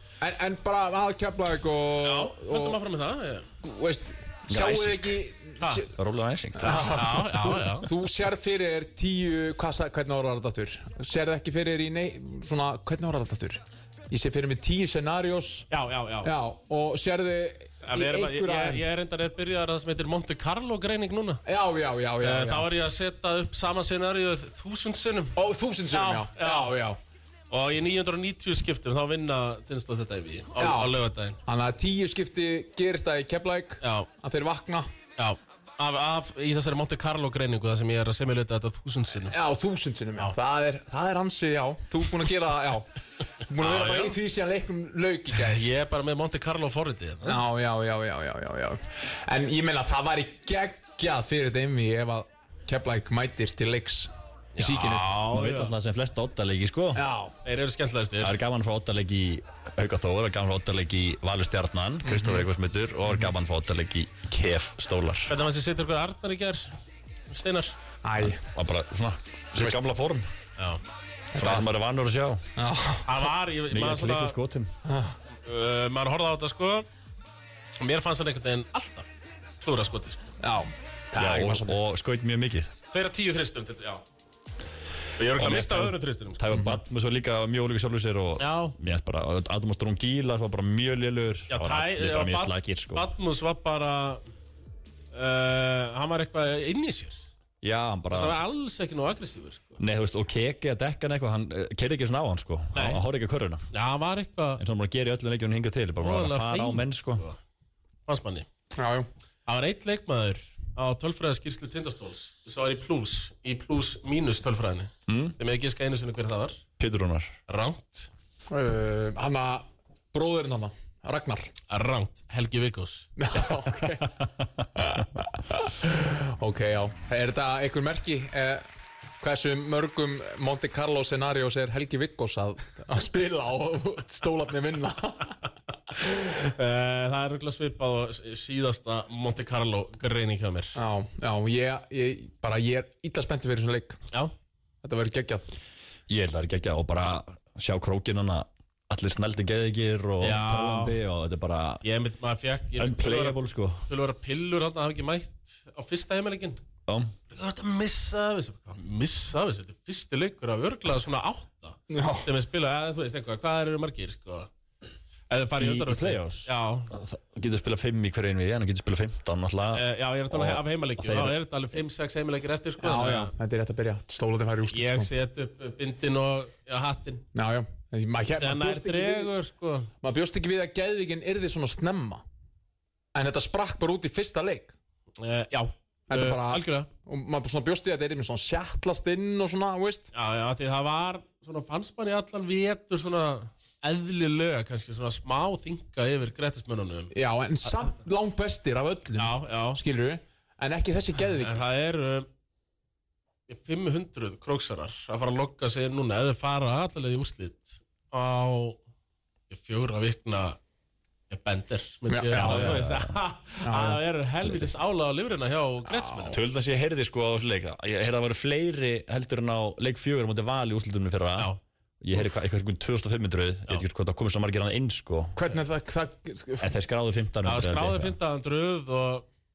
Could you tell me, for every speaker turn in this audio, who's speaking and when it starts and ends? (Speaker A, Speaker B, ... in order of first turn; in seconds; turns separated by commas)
Speaker A: 0.2-2.8, Speaker B: 2.0-3.5, Speaker A: 3.6-5.9, Speaker C: 4.5-5.2, Speaker B: 5.6-5.8, Speaker C: 5.9-7.2, Speaker A: 6.6-15.7, Speaker B: 6.9-7.9, Speaker B: 15.7-16.3, Speaker A: 16.2-18.9, Speaker B: 17.8-21.4, Speaker A: 21.4-22.7, Speaker B: 22.2-25.4, Speaker A: 25.4-27.0, Speaker B: 25.9-26.7, Speaker B: 27.5-31.4, Speaker A: 30.6-30.9, Speaker A: 31.4-34.9, Speaker B: 33.8-34.1, Speaker B: 35.2-39.4, Speaker A: 39.3-42.9, Speaker A: 43.5-45.7, Speaker B: 43.6-44.2, Speaker B: 45.5-47.4, Speaker A: 47.2-55.1, Speaker B: 54.6-55.7, Speaker C: 55.3-57.0, Speaker A: 56.9-57.3, Speaker B: 57.5-58.4, Speaker C: 58.2-65.3, Speaker A: 62.0-62.5, Speaker B: 65.3-66.7, Speaker B: 67.3-67.8, Speaker A: 68.0-68.4, Speaker C: 68.2-70.3, Speaker A: 69.6-69.8, Speaker A: 71.3-71.7, Speaker C: 71.3-72.4, Speaker A: 72.6-73.2, Speaker B: 73.1-74.4, Speaker C: 73.7-74.7, Speaker A: 74.9-75.1, Speaker B: 75.5-76.9, Speaker B: 77.8-79.1, Speaker B: 79.6-80.2, Speaker A: 80.4-81.8, Speaker C: 81.2-82.7, Speaker B: 82.9-84.0, Speaker B: 85.2-86.4, Speaker C: 85.3-93.1, Speaker A: 86.5-86.8, Speaker B: 88.4-88.8, Speaker B: 91.5-94.2, Speaker B: 95.1-97.2, Speaker C: 97.6-98.4, Speaker B: 98.1-99.8, Speaker C: 99.8-103.6, Speaker B: 102.7-103.0, Speaker B: 103.7-104.6, Speaker C: 104.6-107.2, Speaker B: 106.0-107.4, Speaker B: 108.1-108.5, Speaker A: 108.8-109.1, Speaker B: 109.5-116.6, Speaker C: 115.1-115.4, Speaker C: 116.8-117.4, Speaker B: 117.5-118.1, Speaker A: 118.5-121.5, Speaker B: 121.7-123.1, Speaker A: 123.2-124.2, Speaker A: 124.8-128.7, Speaker A: 129.2-135.4, Speaker B: 136.1-140.8, Speaker A: 140.8-144.0, Speaker A: 144.8-145.5, Speaker C: 146.1-151.8, Speaker B: 150.2-151.0, Speaker B: 151.8-156.6, Speaker C: 152.8-153.8, Speaker C: 156.9-157.1, Speaker B: 157.3-164.5, Speaker A: 161.9-162.3, Speaker B: 165.3-166.9, Speaker C: 165.6-171.4, Speaker B: 169.7-173.3, Speaker A: 172.8-175.1, Speaker B: 174.7-177.2, Speaker A: 177.3-179.3, Speaker B: 178.4-179.9, Speaker A: 180.0-182.2, Speaker A: 183.1-184.7, Speaker B: 185.2-186.9, Speaker A: 186.1-190.1, Speaker B: 190.1-197.1, Speaker A: 197.1-201.6, Speaker B: 199.2-199.8, Speaker B: 201.4-202.3, Speaker B: 203.5-208.8, Speaker B: 209.5-210.6, Speaker B: 211.3-216.4, Speaker A: 212.1-212.8, Speaker C: 212.3-213.2, Speaker A: 213.6-214.0, Speaker C: 214.4-214.7, Speaker A: 215.9-216.4, Speaker C: 216.3-225.5, Speaker A: 225.4-226.7, Speaker C: 226.6-228.2, Speaker B: 227.4-229.3